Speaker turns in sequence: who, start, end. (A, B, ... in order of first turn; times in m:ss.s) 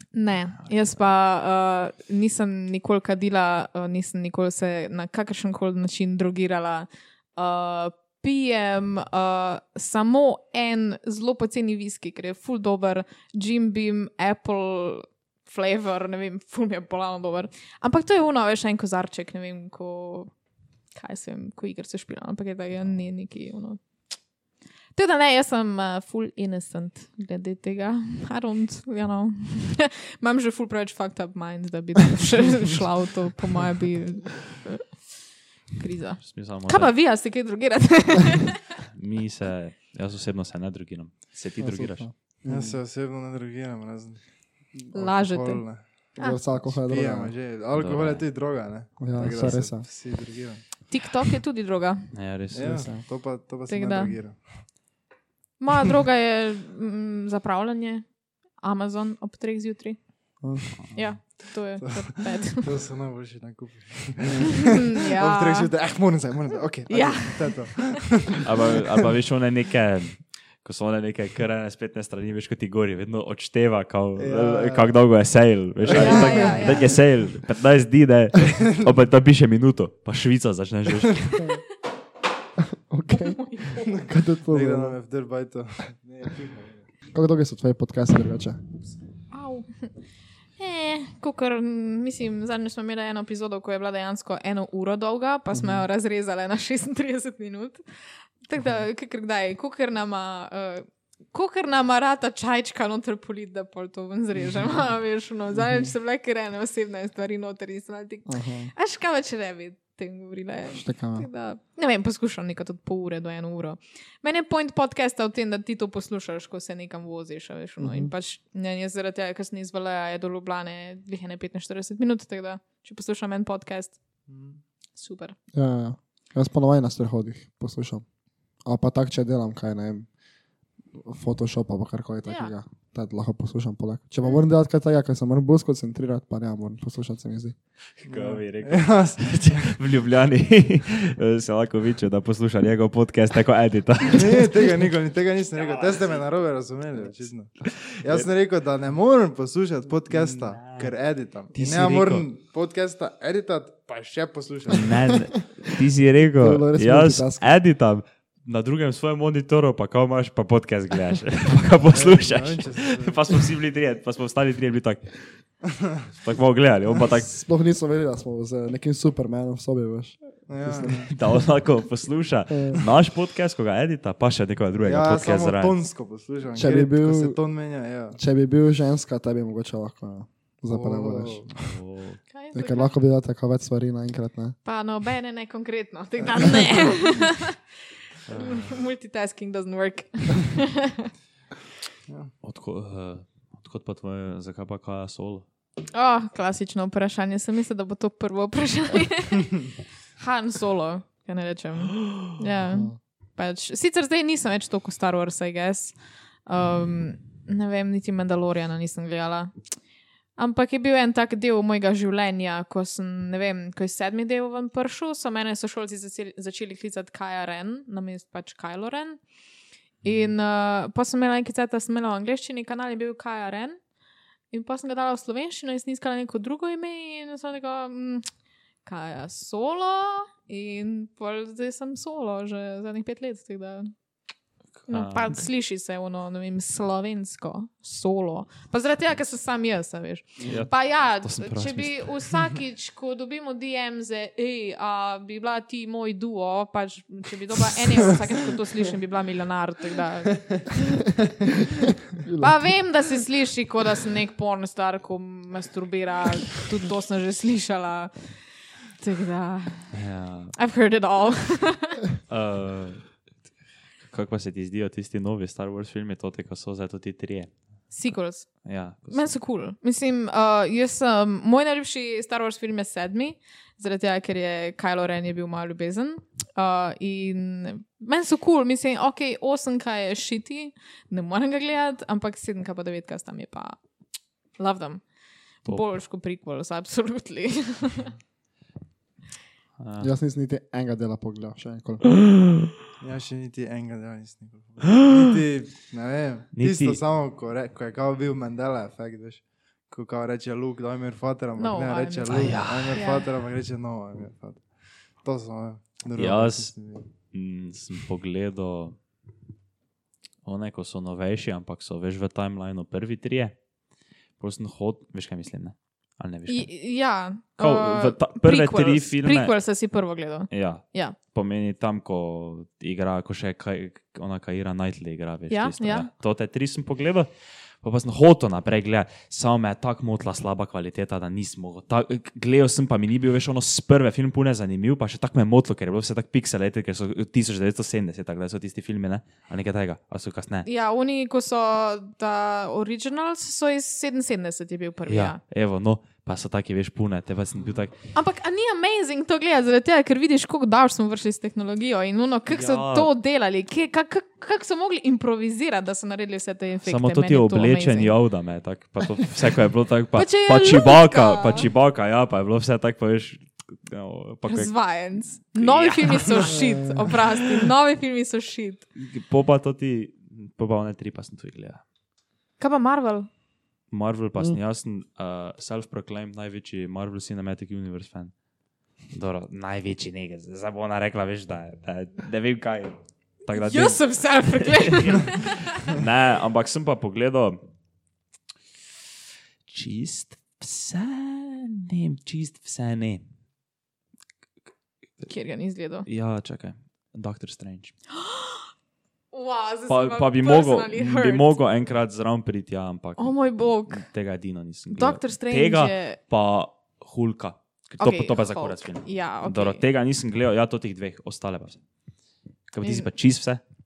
0:00.1-0:20.3 A
0:00.6-0:01.0 B
0:20.9-0:23.8 A
0:24.9-0:34.9 A
0:35.8-0:38.7 A
0:36.2-0:36.9 B
0:38.8-0:42.1 B
0:41.6-0:42.8 C
0:42.5-0:44.3 D
0:44.9-0:50.6 D
0:44.9-0:46.4 A
0:46.2-0:47.3 C
0:47.7-0:48.2 B
0:49.0-0:49.8 C
0:50.9-0:52.1 A
0:52.1-0:52.9 B
0:52.5-0:54.6 D
0:52.8-0:53.0 C
0:53.7-0:54.1 A
0:55.6-0:58.0 A
0:58.6-1:00.0 A
1:00.4-1:00.7 C
1:00.9-1:02.7 A
1:01.8-1:08.8 D
1:04.6-1:05.7 A
1:06.9-1:07.9 A
1:08.4-1:21.4 B
1:14.2-1:15.0 D
1:15.8-1:16.6 D
1:15.9-1:16.9 A
1:22.6-1:25.0 C
1:23.1-1:24.0 A
1:23.9-1:26.8 D
1:27.1-1:28.6 C
1:29.3-1:29.9 A
1:30.6-1:37.8 A
1:35.5-1:35.8 C
1:38.4-2:04.0 A
1:48.3-1:48.7 C
1:50.7-1:51.3 C
1:57.8-1:58.1 C
2:04.3-2:04.6 D
2:05.0-2:05.4 A
2:05.5-2:08.0 C
2:08.6-2:10.1 C
2:11.0-2:17.6 C
2:12.2-2:12.5 A
2:18.0-2:24.6 B
2:18.1-2:19.7 D
2:24.1-2:35.2 D
2:25.7-2:26.0 B
2:27.6-2:28.3 B
2:30.1-2:30.9 B
2:31.5-2:32.3 B
2:34.7-2:45.3 B
2:36.4-2:37.5 C
2:41.9-2:43.2 D
2:46.1-2:47.3 B
2:47.1-2:51.0 C
2:50.5-2:51.1 D
2:51.1-2:55.8 B
2:52.5-2:52.8 C
2:54.8-2:58.2 D
2:56.6-2:57.4 C
2:58.1-3:01.5 C
3:00.7-3:01.5 D
3:01.5-3:02.2 B
3:02.3-3:02.9 A
3:02.5-3:04.6 C
3:04.6-3:07.6 A
3:08.3-3:08.8 D
3:08.3-3:11.1 A
3:12.1-3:12.3 D
3:12.4-3:15.4 B
3:15.9-3:29.5 A
3:22.6-3:23.0 C
3:30.4-3:39.2 A
3:40.0-3:43.8 A
3:44.5-3:48.2 A
3:48.8-3:53.9 A
3:54.8-3:55.4 B
3:54.9-4:10.6 A
4:00.5-4:02.4 B
4:12.2-4:12.7 C
4:12.4-4:18.4 A
4:18.9-4:20.0 A
4:19.9-4:20.5 B
4:20.5-4:22.0 A
4:22.3-4:23.1 B
4:24.0-4:27.9 B
4:27.9-4:43.8 A
4:28.6-4:29.3 B
4:44.6-4:45.0 A
4:45.6-4:48.1 A
4:49.8-4:50.1 B
4:50.0-4:52.2 C
4:53.0-5:07.1 D
4:55.1-4:55.4 B
4:56.5-4:57.0 B
5:01.6-5:03.2 A
5:02.3-5:03.0 B
5:06.1-5:06.7 B
5:07.3-5:09.0 B
5:10.4-5:13.6 B
5:14.4-5:16.7 B
5:16.5-5:21.2 A
5:17.6-5:19.5 B
5:20.5-5:27.3 B
5:25.5-5:26.1 A
5:27.8-5:40.7 B
5:40.6-5:45.4 A
5:45.1-5:47.9 B
5:48.1-5:58.1 A
5:52.5-5:53.1 B
5:56.8-6:04.7 B
6:00.1-6:01.7 A
6:04.4-6:08.8 A
6:05.5-6:06.6 B
6:09.0-6:11.8 B
6:12.6-6:13.3 A
6:13.9-6:18.3 B
6:19.1-6:27.6 B
6:23.5-6:25.6 A
6:29.7-6:33.2 B
6:35.2-6:36.1 A
6:36.0-6:37.9 B
6:38.1-6:38.7 A
6:39.3-6:41.6 A
6:39.9-6:43.4 B
6:43.2-6:44.1 A
6:43.9-6:51.8 B
6:44.9-6:46.2 A
6:48.0-6:49.8 A
6:52.7-6:53.6 B
6:52.8-6:53.1 A